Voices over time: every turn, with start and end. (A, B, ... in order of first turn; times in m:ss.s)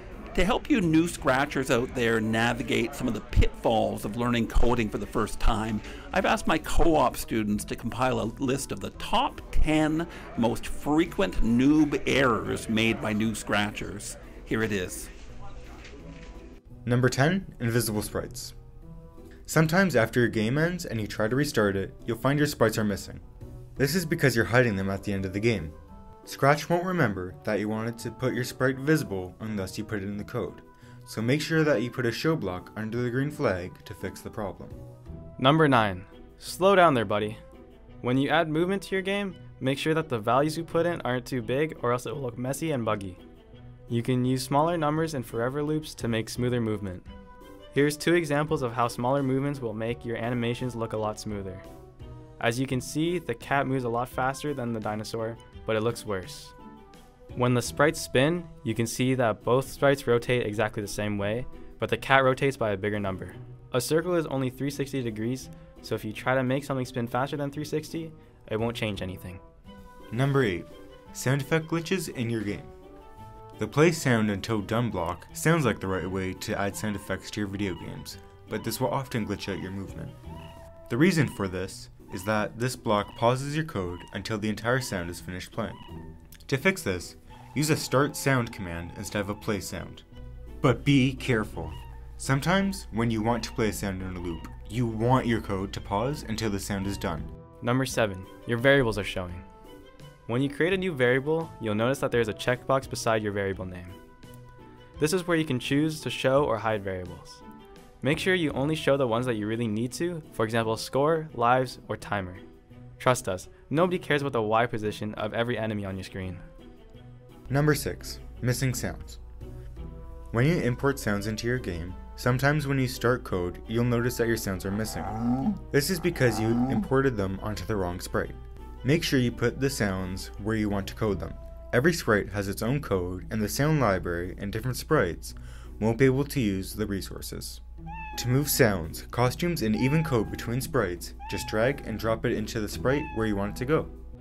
0:00.3-0:15.1 A
0:16.8-0:18.5 B
0:19.5-0:23.2 B
0:23.8-0:34.8 B
0:35.4-0:37.4 C
0:38.0-0:43.2 C
0:43.9-0:47.1 C
0:47.7-0:51.6 C
0:52.4-0:56.5 C
0:57.3-1:09.4 C
1:10.1-1:12.7 B
1:13.6-1:20.2 B
1:20.9-1:25.8 B
1:26.4-1:30.0 B
1:30.6-1:37.3 B
1:37.6-1:39.4 C
1:40.3-1:44.0 C
1:45.0-1:47.4 C
1:48.0-1:52.4 C
1:53.0-1:56.4 C
1:57.5-1:59.2 B
2:00.3-2:17.6 B
2:18.1-2:23.9 B